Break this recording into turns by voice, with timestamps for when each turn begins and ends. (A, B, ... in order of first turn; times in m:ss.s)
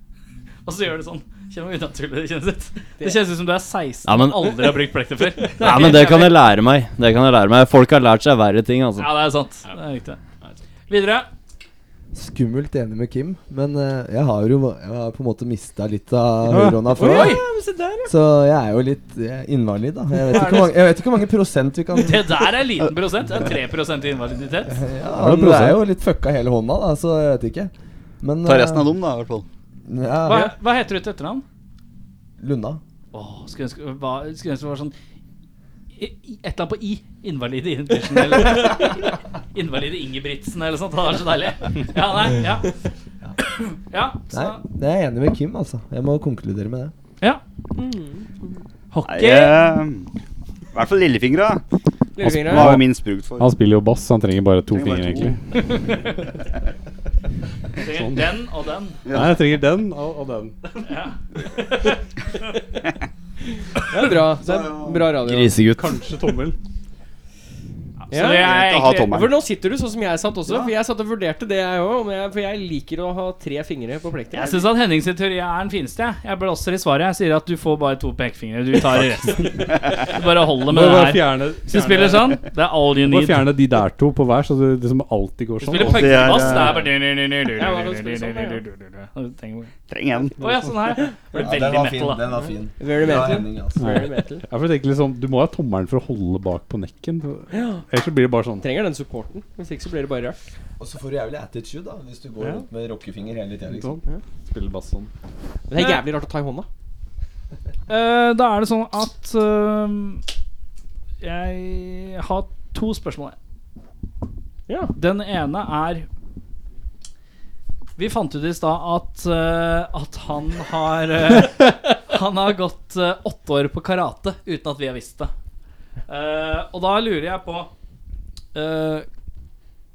0:00.6-0:06.4 A
0:04.0-0:05.0 B
0:05.6-0:09.2 B
0:09.0-0:10.2 A
0:10.9-0:11.3 A
0:12.1-0:17.4 C
0:16.5-0:16.8 D
0:17.0-0:18.1 E
0:17.0-0:17.4 A
0:18.1-0:22.5 C
0:20.3-0:20.8 A
0:22.0-0:24.8 A
0:24.6-0:29.0 C
0:25.1-0:25.8 D
0:28.4-0:29.5 F
0:29.8-0:30.5 C
0:30.2-0:31.4 A
0:32.4-0:32.8 C
0:33.1-0:34.9 A
0:36.0-0:42.7 A
0:43.6-0:44.6 A
0:44.3-0:46.9 C
0:47.8-0:48.5 E
0:48.9-0:49.6 A
0:49.0-0:50.1 F
0:50.7-0:51.6 F
0:52.1-0:52.8 E
0:52.2-0:55.4 D
0:52.3-0:53.5 F
0:54.7-0:55.4 F
0:57.8-0:59.0 A
0:57.8-0:58.3 D
0:59.0-0:59.4 F
0:59.1-1:00.6 D
1:00.8-1:01.1 A
1:03.8-1:05.5 E
1:04.4-1:05.1 F
1:05.2-1:05.9 B
1:05.7-1:06.6 D
1:08.0-1:09.1 A
1:08.1-1:14.5 E
1:08.2-1:09.4 F
1:14.3-1:23.5 A
1:20.7-1:22.4 D
1:23.0-1:26.7 D
1:25.6-1:29.7 A
1:25.8-1:26.9 F
1:26.5-1:26.8 E
1:27.5-1:28.6 E
1:29.9-1:30.6 F
1:30.4-1:32.3 A
1:31.4-1:34.0 C
1:32.8-1:34.4 E
1:33.8-1:38.6 D
1:37.5-1:37.8 E
1:38.6-1:40.4 E
1:40.8-1:44.0 C
1:43.7-1:45.1 D
1:45.7-1:46.7 E
1:45.8-1:46.0 A
1:47.9-1:50.2 A
1:51.2-1:53.4 A
1:54.7-1:54.9 E
1:54.9-1:56.1 A
1:58.0-2:05.3 A
2:06.1-2:07.7 A
2:08.5-2:09.1 A